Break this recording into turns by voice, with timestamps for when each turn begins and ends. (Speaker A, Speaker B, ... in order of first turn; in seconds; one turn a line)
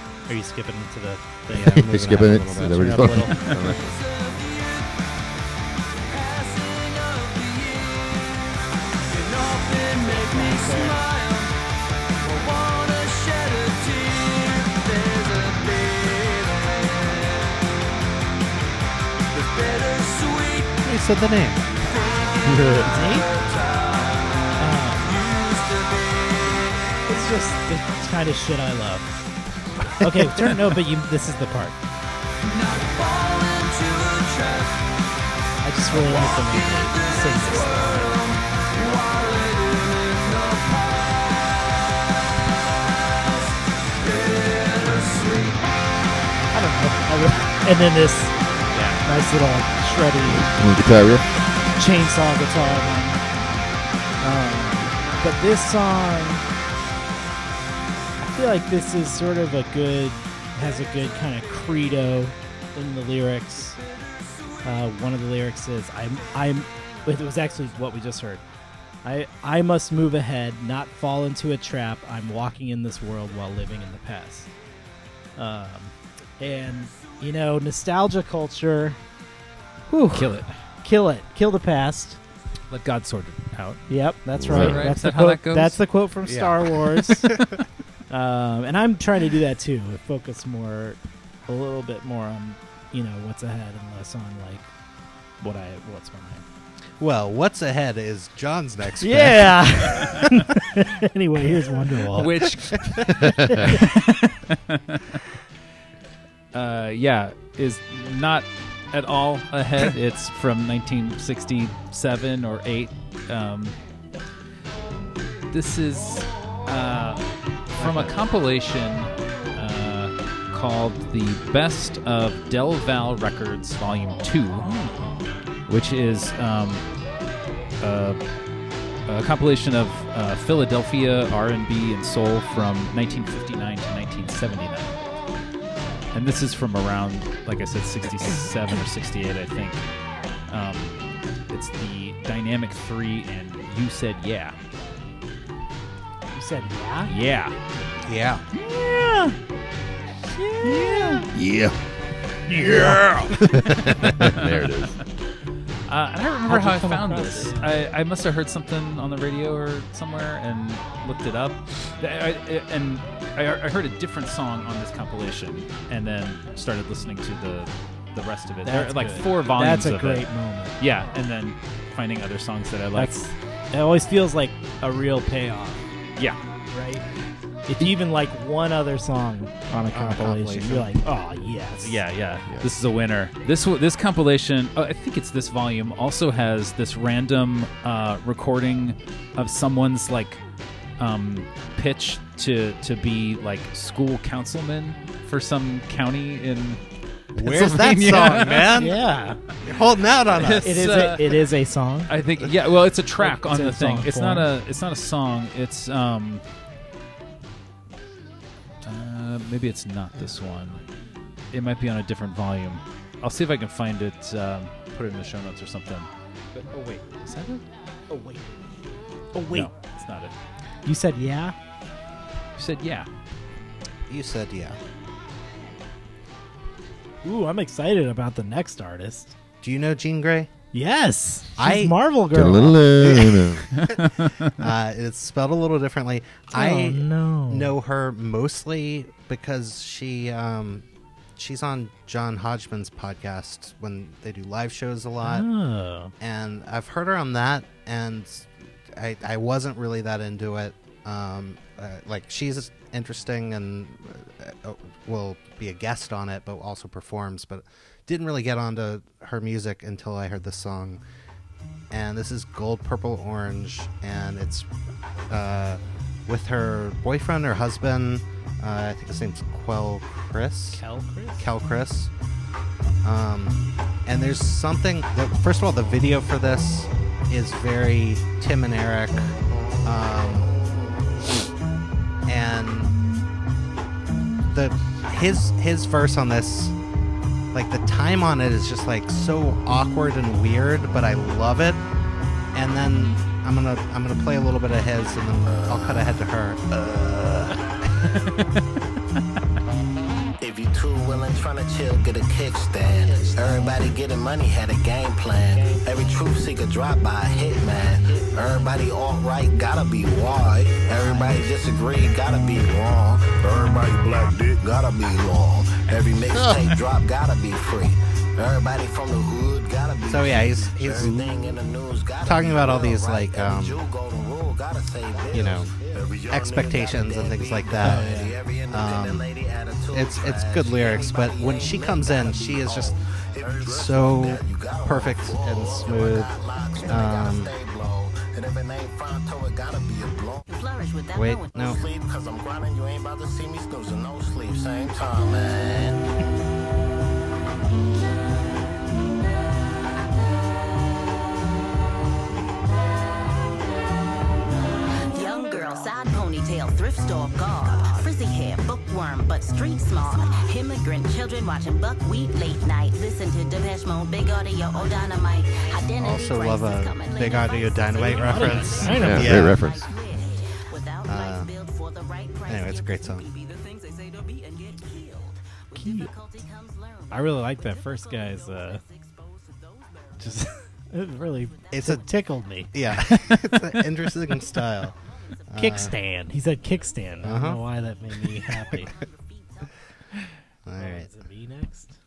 Speaker A: 0.3-1.8
Speaker B: 1.5-3.8
Speaker C: 1.6-4.0
Speaker A: 2.6-3.5
Speaker A: 10.1-11.0
Speaker B: 20.8-21.8
Speaker C: 22.4-22.9
Speaker A: 22.9-23.3
Speaker A: 24.6-25.2
Speaker A: 27.0-29.2
Speaker A: 30.0-31.8
Speaker A: 35.6-38.2
Speaker A: 46.5-48.3
Speaker D: 48.7-49.0
Speaker A: 49.0-50.5
Speaker C: 50.6-51.3
Speaker A: 51.8-53.2
Speaker A: 54.2-56.4
Speaker A: 58.2-63.8
Speaker A: 64.6-68.4
Speaker A: 69.0-74.5
Speaker A: 75.3-79.0
Speaker A: 79.9-80.2
Speaker D: 80.0-80.5
Speaker A: 80.8-82.2
Speaker D: 82.7-83.8
Speaker A: 83.9-87.3
Speaker C: 84.4-84.9
Speaker D: 84.5-85.8
Speaker B: 86.2-87.6
Speaker A: 88.1-94.7
Speaker A: 95.4-96.4
Speaker B: 97.0-100.5
Speaker A: 99.0-102.4
Speaker D: 102.2-103.2
Speaker C: 103.2-103.7
Speaker A: 103.4-104.2
Speaker D: 103.8-105.2
Speaker D: 106.5-113.8
Speaker D: 115.5-117.2
Speaker D: 117.8-124.7
Speaker A: 117.8-118.2
Speaker A: 124.6-125.0
Speaker D: 125.7-126.8
Speaker D: 127.8-128.2
Speaker D: 129.1-134.9
Speaker D: 136.1-139.8
Speaker D: 140.5-140.9
Speaker D: 141.5-144.6
Speaker A: 146.3-147.1
Speaker D: 147.1-147.5
Speaker B: 148.0-148.4
Speaker A: 148.5-149.3
Speaker A: 150.3-151.3
Speaker D: 150.7-151.2
Speaker C: 151.3-151.8
Speaker A: 152.5-153.3
Speaker C: 152.5-154.9
Speaker D: 154.2-154.9
Speaker D: 155.9-170.3
Speaker A: 156.5-157.8
Speaker A: 168.6-170.8
Speaker D: 170.8-173.2
Speaker A: 172.9-175.8
Speaker A: 176.7-177.0
Speaker A: 177.7-182.0
Speaker B: 179.9-180.9
Speaker D: 181.8-190.4
Speaker D: 191.0-196.8
Speaker D: 197.3-198.8
Speaker B: 197.3-199.0
Speaker A: 198.8-199.4
Speaker B: 199.6-200.9
Speaker D: 200.3-201.4
Speaker A: 200.6-202.1
Speaker D: 202.1-206.4
Speaker A: 203.2-204.5
Speaker D: 208.8-210.8
Speaker D: 211.5-217.6
Speaker A: 216.7-217.0
Speaker A: 218.1-218.5
Speaker A: 219.3-219.7
Speaker D: 219.5-220.3
Speaker A: 220.8-221.5
Speaker D: 222.6-223.1
Speaker B: 224.1-224.8
Speaker A: 227.2-229.3
Speaker B: 229.6-230.5
Speaker A: 230.7-233.2
Speaker B: 231.6-232.0
Speaker C: 232.3-233.7
Speaker B: 233.0-233.9
Speaker D: 233.9-234.3
Speaker B: 234.6-245.5
Speaker A: 236.5-237.7
Speaker A: 245.2-246.1
Speaker B: 246.2-261.0
Speaker B: 261.9-264.7
Speaker B: 265.3-270.8
Speaker A: 270.7-271.4
Speaker B: 271.4-272.1
Speaker B: 273.0-280.5
Speaker B: 282.2-282.9
Speaker B: 284.5-286.8
Speaker B: 287.5-291.8
Speaker B: 292.5-296.6
Speaker E: 295.4-296.1
Speaker E: 296.7-297.6
Speaker E: 300.4-340.4
Speaker B: 320.1-321.6
Speaker B: 322.2-323.8
Speaker B: 325.3-325.7
Speaker B: 326.3-328.2
Speaker A: 327.8-328.3
Speaker B: 328.7-329.3
Speaker B: 329.9-332.9
Speaker B: 333.5-337.5
Speaker F: 340.5-341.8
Speaker B: 341.1-341.8
Speaker E: 341.6-346.0
Speaker F: 355.1-380.4
Speaker B: 366.0-369.6
Speaker A: 368.0-369.5
Speaker C: 368.9-369.9
Speaker B: 371.0-371.5
Speaker B: 372.5-373.3
Speaker A: 375.7-376.1
Speaker A: 377.1-378.8
Speaker A: 380.2-383.4
Speaker B: 381.7-382.0
Speaker B: 382.7-384.9
Speaker B: 385.5-385.9
Speaker A: 385.6-388.9
Speaker B: 387.2-387.6
Speaker F: 388.7-389.7
Speaker B: 390.6-391.1
Speaker A: 390.8-391.9